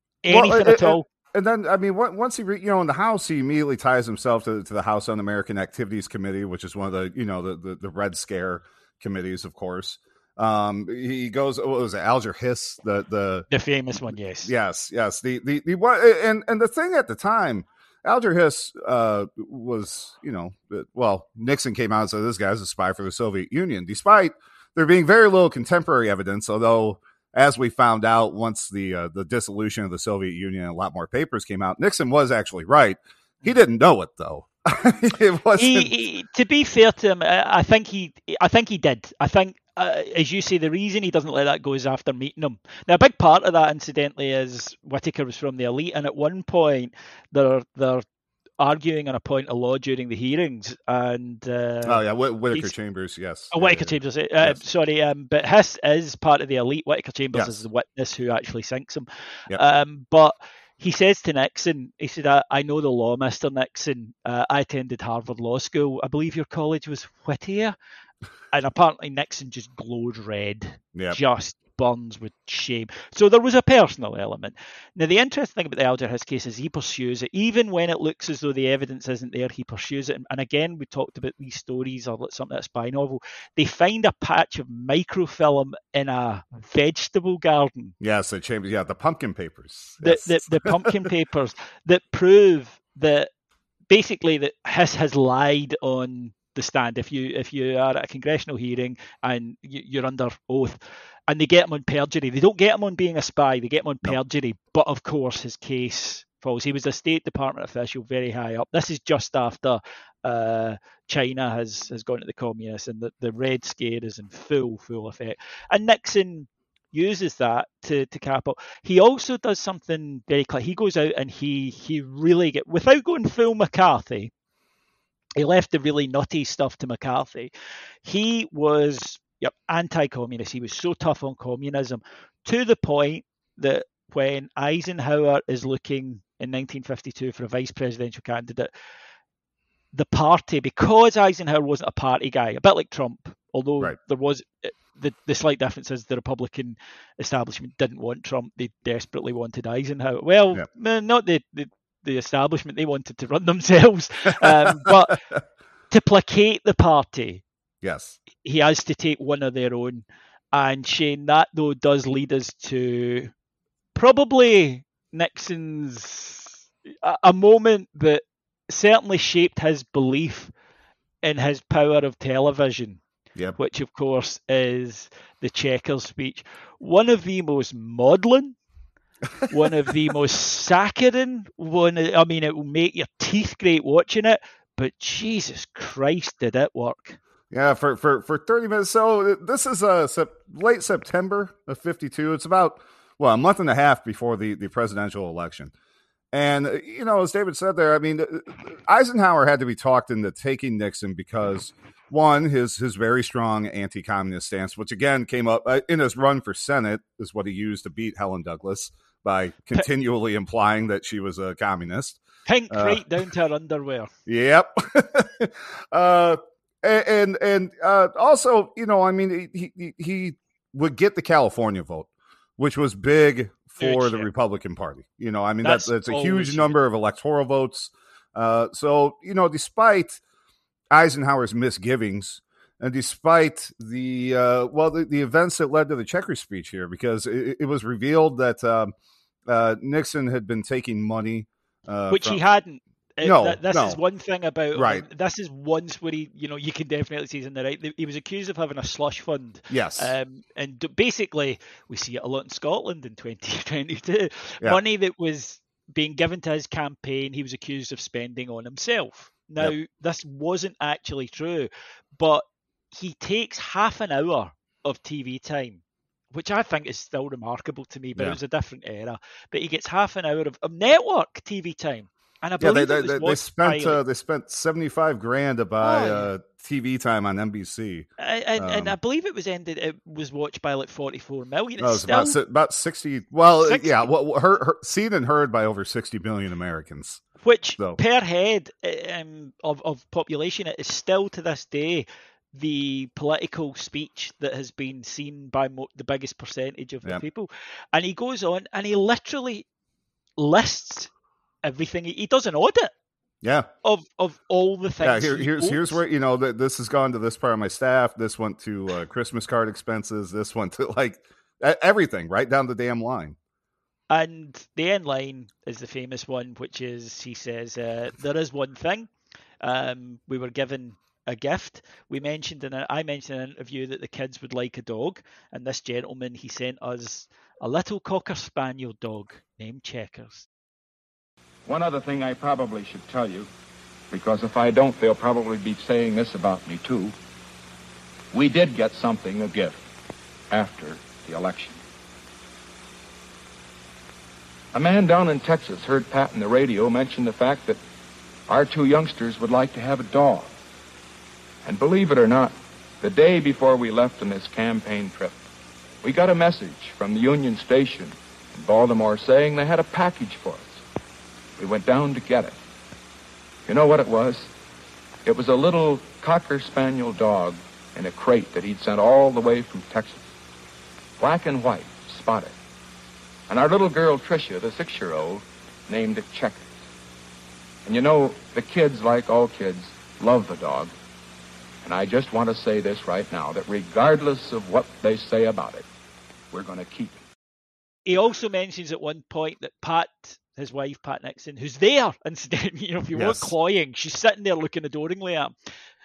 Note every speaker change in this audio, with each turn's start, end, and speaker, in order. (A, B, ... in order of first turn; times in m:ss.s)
0:00.2-0:01.0 A
0:00.3-0:13.5 B
0:13.5-0:14.5 A
0:14.4-0:36.0 B
0:35.5-0:48.0 A
0:48.6-0:52.7 A
0:51.8-0:54.6 B
0:53.5-1:07.7 A
0:57.3-0:57.6 B
1:08.5-1:27.9 A
1:28.0-1:31.1 B
1:30.0-1:33.3 A
1:33.9-2:04.3 A
2:05.4-2:07.5 A
2:08.0-2:18.7 A
2:19.9-2:35.2 A
2:34.5-2:34.9 B
2:35.9-2:37.4 A
2:37.8-2:38.2 B
2:38.4-2:43.3 A
2:43.9-2:50.5 A
2:51.2-2:53.0 A
2:53.6-2:58.6 A
2:59.5-3:07.2 A
3:07.5-3:15.7 B
3:16.3-3:32.2 B
3:32.5-3:34.1 A
3:32.7-3:33.0 B
3:34.3-3:42.1 B
3:42.6-3:50.2 B
3:43.8-3:44.3 A
3:45.6-3:46.8 A
3:50.9-3:58.9 B
3:59.5-4:02.4 B
4:02.1-4:25.8 A
4:03.2-4:04.0 B
4:04.7-4:05.0 B
4:09.7-4:10.2 B
4:26.3-4:34.0 A
4:32.6-4:38.9 B
4:35.8-4:36.3 A
4:38.2-4:42.4 A
4:41.8-4:47.2 B
4:43.6-4:44.1 A
4:47.4-4:59.6 A
5:00.4-5:01.1 A
5:01.6-5:02.9 A
5:03.4-5:03.7 B
5:03.8-5:06.0 A
5:05.0-5:13.4 B
5:14.1-5:19.1 A
5:19.6-5:30.5 A
5:31.6-5:33.5 C
5:34.1-5:37.2 C
5:38.3-5:39.8 C
5:40.5-5:41.8 C
5:44.7-5:47.8 C
5:48.5-5:50.5 C
5:51.6-5:55.4 C
5:56.0-6:00.8 C
6:01.6-6:02.6 C
6:03.7-6:04.5 C
6:05.2-6:10.2 C
6:11.2-6:12.5 C
6:13.5-6:16.7 C
6:17.8-6:20.9 C
6:21.8-6:25.9 C
6:26.5-6:27.2 C
6:28.0-6:35.5 A
6:33.1-6:33.5 B